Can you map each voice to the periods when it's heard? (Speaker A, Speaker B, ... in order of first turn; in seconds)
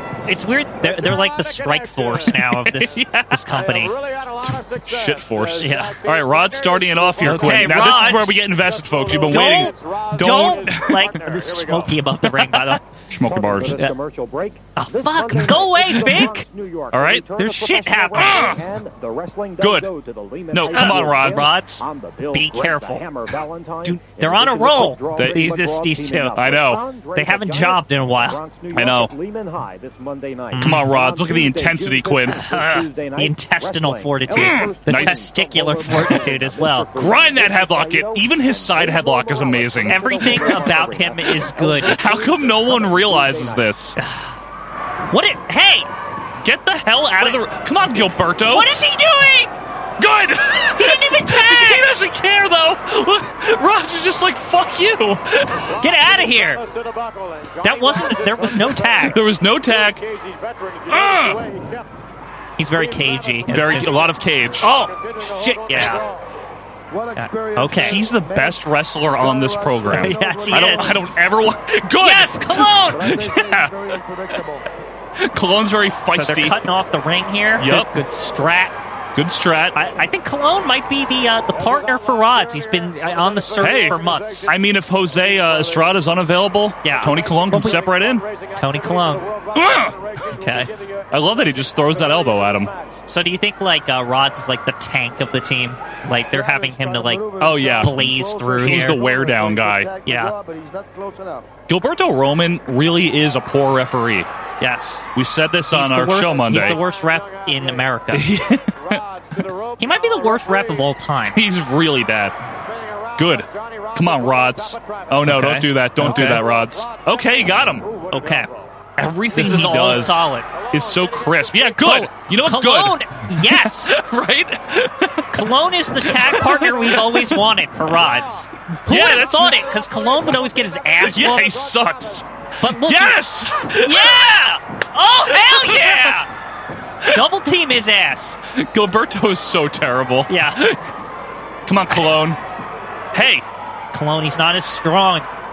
Speaker A: 0.2-4.0, 5.6-6.0, 7.2-8.5, 9.3-12.8, 14.8-16.5, 17.4-18.5, 20.7-23.1, 23.8-26.6, 27.1-28.4, 30.5-30.9, 32.4-36.9, 39.9-42.0, 44.0-44.3, 45.1-45.9, 48.5-49.5, 50.8-51.9, 55.8-56.6, 57.6-59.2, 62.6-64.0, 64.6-66.0, 67.2-68.0, 69.9-71.0, 72.0-73.2, 76.1-78.8, 79.7-84.5, 86.8-87.8, 88.6-89.3, 90.3-90.7, 93.1-99.0, 100.1-100.3, 104.6-105.1, 105.7-108.3, 109.8-111.4, 115.3-116.4, 118.1-118.5, 119.3-120.5, 121.8-124.0, 125.3-131.6, 132.6-133.2, 133.8-136.3, 137.1-138.4, 140.3-140.6, 143.9-145.3
Speaker B: 0.8-2.4, 3.5-12.0, 55.6-61.9, 62.8-66.3, 81.5-86.3, 86.9-93.1, 106.2-110.9, 112.6-115.4, 116.0-118.8, 119.4-122.0, 126.6-127.0, 127.8-132.2
Speaker C: 2.4-3.3, 4.4-11.0, 12.3-13.8, 16.9-17.3, 18.2-18.6, 19.6-19.9, 20.5-21.6, 25.1-25.5, 26.4-26.8, 28.7-29.1, 30.6-32.8, 34.3-35.3, 35.9-36.3, 36.9-40.7, 41.8-44.0, 46.4-48.7, 50.0-55.7, 59.1-60.0, 60.9-61.4, 63.5-64.7, 67.8-73.8, 75.2-76.6, 77.6-78.0, 79.2-79.8, 83.6-88.2, 89.5-90.0, 91.1-92.7, 97.4-98.0, 98.6-99.9, 101.7-104.3, 105.1-106.8, 108.1-109.0, 111.3-112.4, 113.2-117.9, 119.0-125.5, 126.0-127.4, 128.9-129.7, 131.0-134.3, 135.2-136.3, 138.5-140.8, 141.7-142.4, 143.1-143.4
Speaker D: 13.2-43.7
Speaker E: 66.9-71.2, 72.9-74.7, 96.3-101.5